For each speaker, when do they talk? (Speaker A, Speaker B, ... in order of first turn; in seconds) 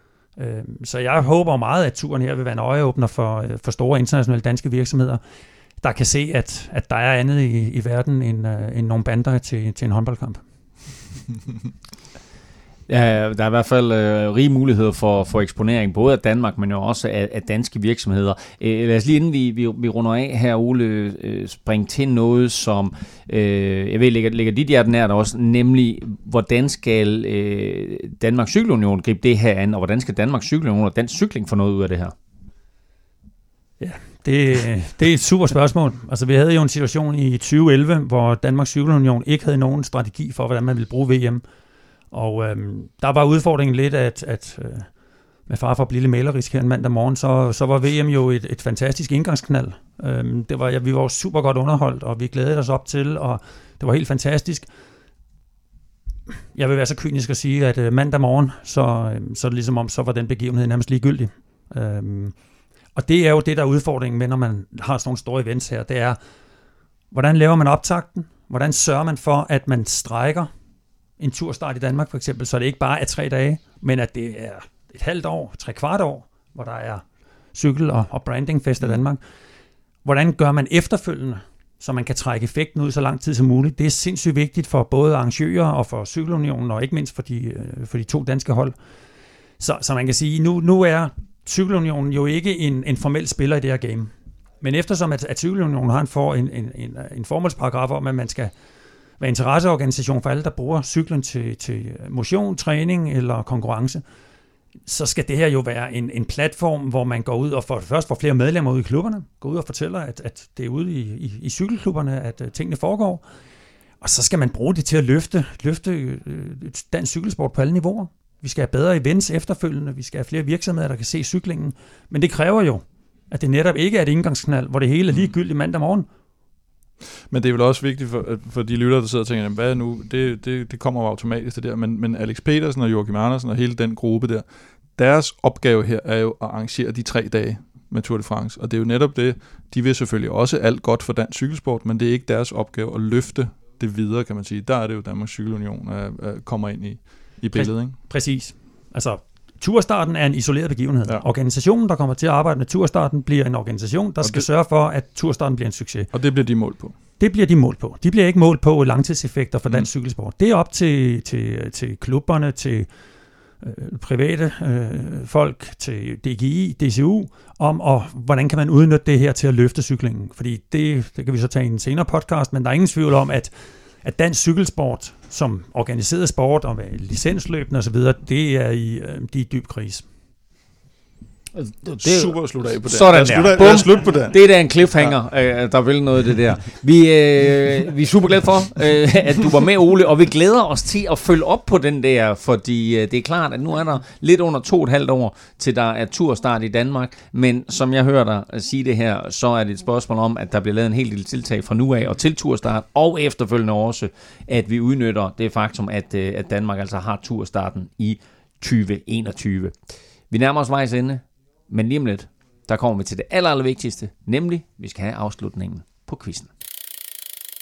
Speaker A: 0.4-5.2, 5.8-10.4, 33.8-41.4, 42.1-44.9, 45.5-54.7, 56.5-62.4, 62.9-66.2, 67.1-70.5, 71.2-79.2, 80.0-88.8, 89.6-98.5, 99.2-104.0, 104.9-113.2, 114.0-126.1, 147.5-156.3, 157.2-162.9, 163.6-180.1
Speaker B: 12.9-32.1, 181.6-216.5
Speaker C: 127.3-148.1, 156.1-157.0, 182.0-185.2